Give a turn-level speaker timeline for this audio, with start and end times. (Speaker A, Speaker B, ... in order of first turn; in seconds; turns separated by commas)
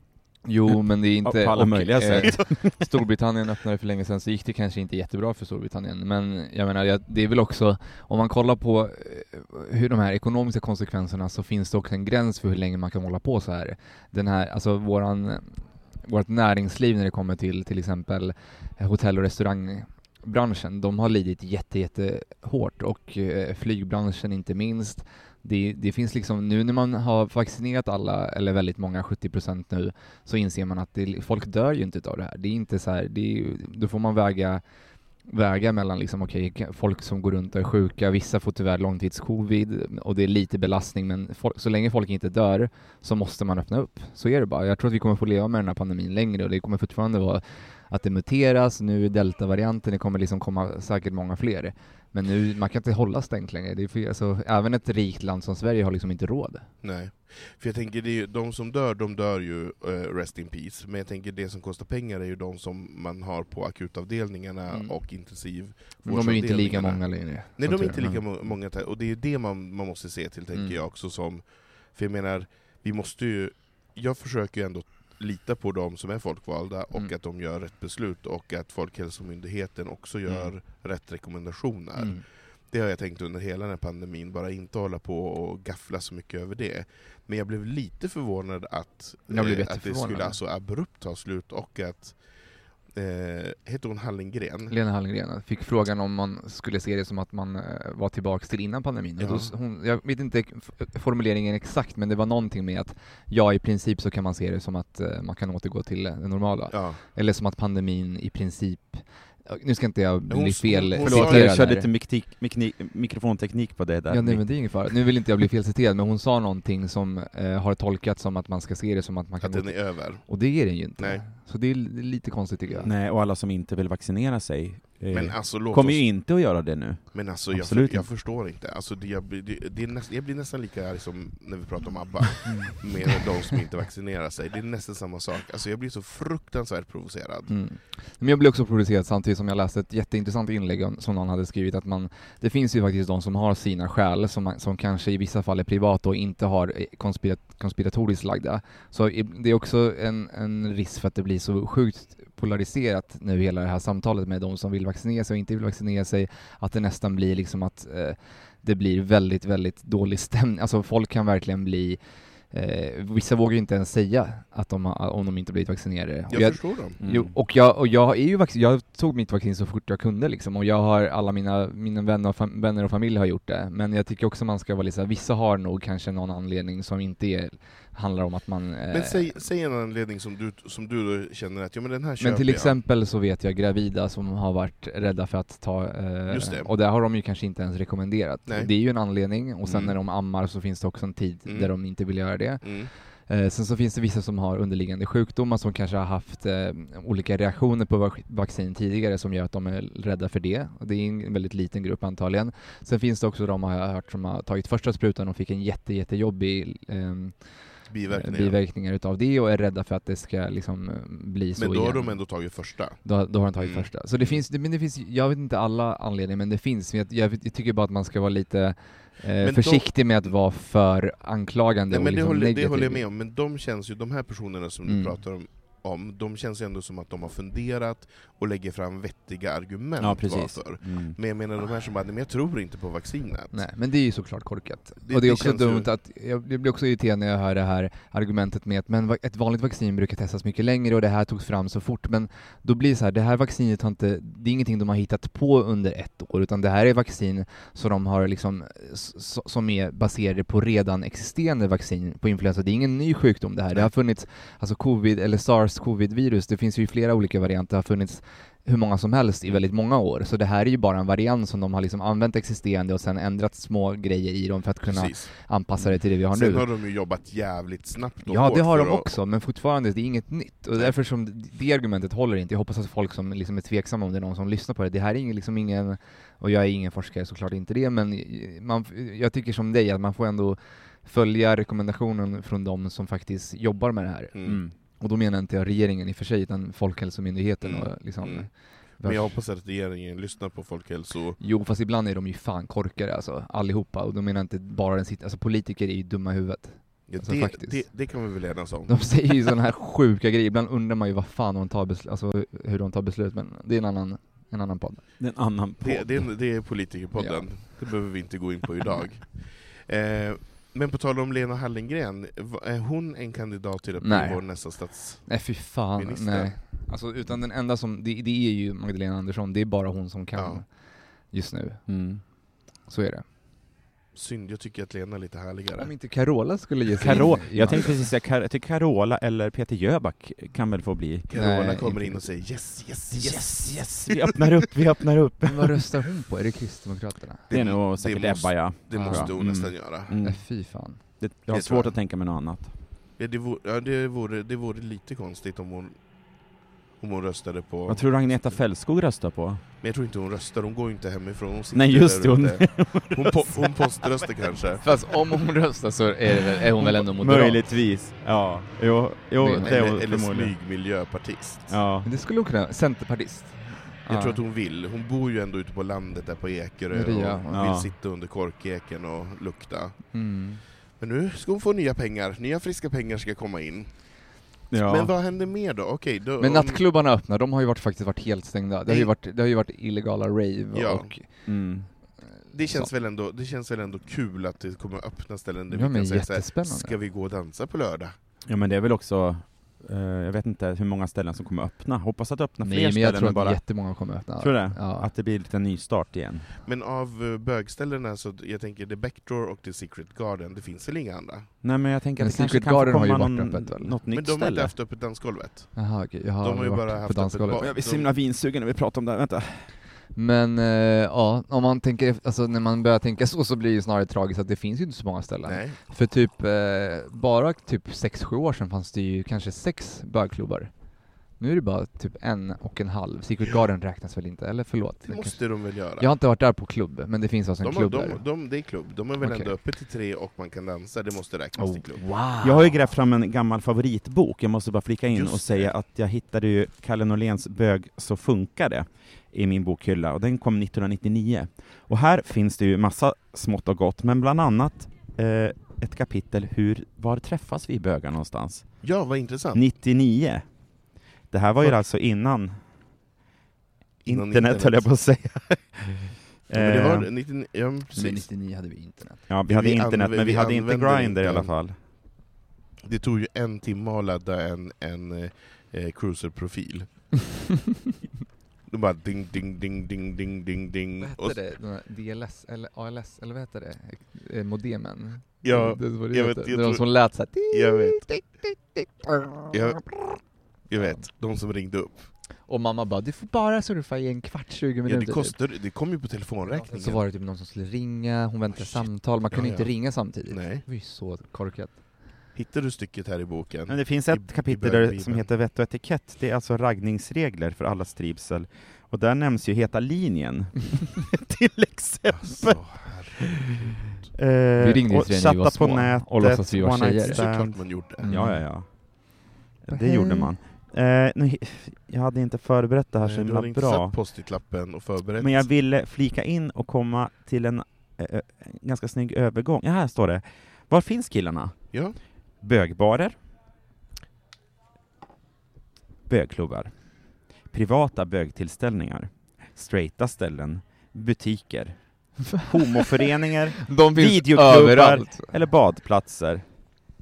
Speaker A: 0.4-34.6, Speaker B: 1.2-2.9, Speaker A: 35.3-56.7, Speaker C: 56.8-92.2, Speaker A: 64.7-64.9, Speaker A: 66.0-68.2, Speaker A: 70.5-70.8, Speaker B: 80.2-80.5, Speaker A: 82.0-82.2, Speaker A: 89.3-90.4, Speaker C: 92.9-94.7, Speaker A: 94.7-111.9, Speaker C: 99.2-99.5, Speaker C: 106.7-107.0, Speaker C: 110.3-111.7, Speaker B: 111.0-114.8, Speaker A: 114.1-122.9, Speaker C: 119.4-120.3, Speaker C: 121.0-121.2, Speaker C: 122.7-122.9, Speaker B: 122.8-128.1, Speaker C: 125.1-126.5, Speaker C: 127.1-137.5, Speaker A: 132.4-132.7, Speaker A: 137.5-162.0, Speaker A: 162.5-179.3, Speaker C: 166.3-167.0, Speaker B: 167.0-167.3, Speaker C: 178.9-182.8, Speaker A: 182.2-192.7, Speaker C: 186.3-186.7, Speaker C: 188.5-188.7, Speaker B: 189.7-189.9, Speaker C: 191.5-191.7, Speaker C: 192.6-192.9, Speaker A: 193.3-207.3, Speaker C: 207.9-208.6, Speaker A: 208.1-212.4, Speaker C: 211.6-214.4, Speaker A: 213.0-223.0, Speaker C: 219.4-220.0, Speaker C: 221.9-233.6, Speaker A: 224.8-225.2, Speaker B: 230.0-231.2, Speaker A: 233.5-266.6, Speaker C: 235.0-235.9, Speaker C: 264.9-265.3, Speaker C: 265.9-269.1, Speaker A: 268.2-289.4, Speaker C: 284.3-284.6, Speaker B: 284.4-284.7, Speaker C: 287.6-288.5, Speaker C: 289.0-291.4, Speaker A: 291.4-297.9, Speaker C: 297.1-299.4, Speaker A: 298.9-305.0, Speaker B: 305.2-306.2, Speaker C: 305.8-315.4, Speaker A: 307.1-307.4, Speaker A: 314.0-320.7, Speaker C: 315.9-316.6, Speaker C: 320.4-320.6, Speaker A: 321.3-321.9, Speaker B: 321.9-322.2, Speaker A: 322.9-323.2, Speaker C: 324.1-325.9, Speaker A: 325.8-328.1, Speaker B: 327.0-331.3, Speaker C: 327.0-327.9, Speaker C: 331.3-334.7, Speaker A: 331.3-332.2, Speaker B: 333.1-335.8, Speaker A: 335.4-337.5, Speaker C: 337.5-340.1, Speaker B: 337.5-342.7, Speaker A: 338.9-341.0, Speaker C: 341.5-341.9, Speaker C: 343.2-345.9, Speaker C: 347.0-348.6, Speaker B: 347.9-349.6, Speaker C: 349.8-354.8, Speaker B: 351.7-354.1, Speaker A: 354.8-357.6, Speaker B: 356.8-360.5, Speaker A: 359.4-359.7, Speaker C: 359.6-361.8, Speaker B: 361.7-362.1, Speaker A: 362.0-364.4, Speaker C: 364.1-370.1, Speaker A: 366.9-367.7, Speaker B: 367.5-367.9, Speaker A: 370.1-370.6, Speaker C: 371.0-374.2, Speaker B: 374.7-375.1, Speaker C: 374.7-376.8, Speaker A: 376.4-381.3, Speaker C: 380.7-381.1, Speaker B: 381.4-381.9, Speaker C: 382.5-388.1, Speaker A: 382.6-382.9, Speaker A: 385.7-386.9, Speaker B: 388.5-393.8, Speaker A: 392.6-395.1, Speaker B: 394.4-396.5, Speaker C: 396.6-401.5, Speaker B: 401.6-404.7, Speaker A: 402.2-404.0, Speaker C: 404.1-405.9, Speaker A: 405.7-407.7, Speaker C: 406.4-408.1, Speaker B: 407.6-409.7, Speaker A: 410.1-420.7, Speaker C: 415.4-415.8, Speaker A: 421.4-425.4, Speaker C: 425.1-426.1, Speaker A: 426.0-428.2, Speaker C: 427.6-432.0, Speaker A: 429.2-429.5, Speaker A: 431.6-432.9, Speaker B: 432.4-448.9, Speaker C: 435.1-435.7, Speaker C: 448.8-449.6, Speaker B: 449.5-450.5, Speaker B: 451.3-452.6, Speaker B: 454.0-457.1, Speaker C: 454.1-454.9, Speaker C: 456.5-458.2, Speaker A: 457.9-459.2, Speaker B: 459.3-461.8, Speaker C: 459.4-461.5, Speaker C: 462.9-467.2, Speaker C: 468.7-471.4, Speaker A: 471.0-479.6, Speaker C: 475.4-478.0, Speaker C: 479.5-480.0, Speaker C: 480.7-482.1, Speaker A: 480.7-481.0, Speaker A: 482.5-485.3, Speaker C: 484.9-487.0, Speaker A: 486.4-491.8, Speaker C: 488.5-490.6, Speaker C: 492.3-495.3, Speaker B: 493.7-502.6, Speaker C: 502.1-504.1, Speaker B: 504.1-513.9, Speaker A: 504.6-507.2, Speaker C: 507.0-508.1, Speaker A: 508.0-508.5, Speaker A: 509.7-510.3, Speaker C: 513.0-515.5, Speaker B: 515.2-521.8, Speaker B: 522.4-523.2, Speaker B: 526.1-526.8, Speaker B: 527.5-536.4, Speaker A: 532.4-532.8, Speaker A: 533.6-535.3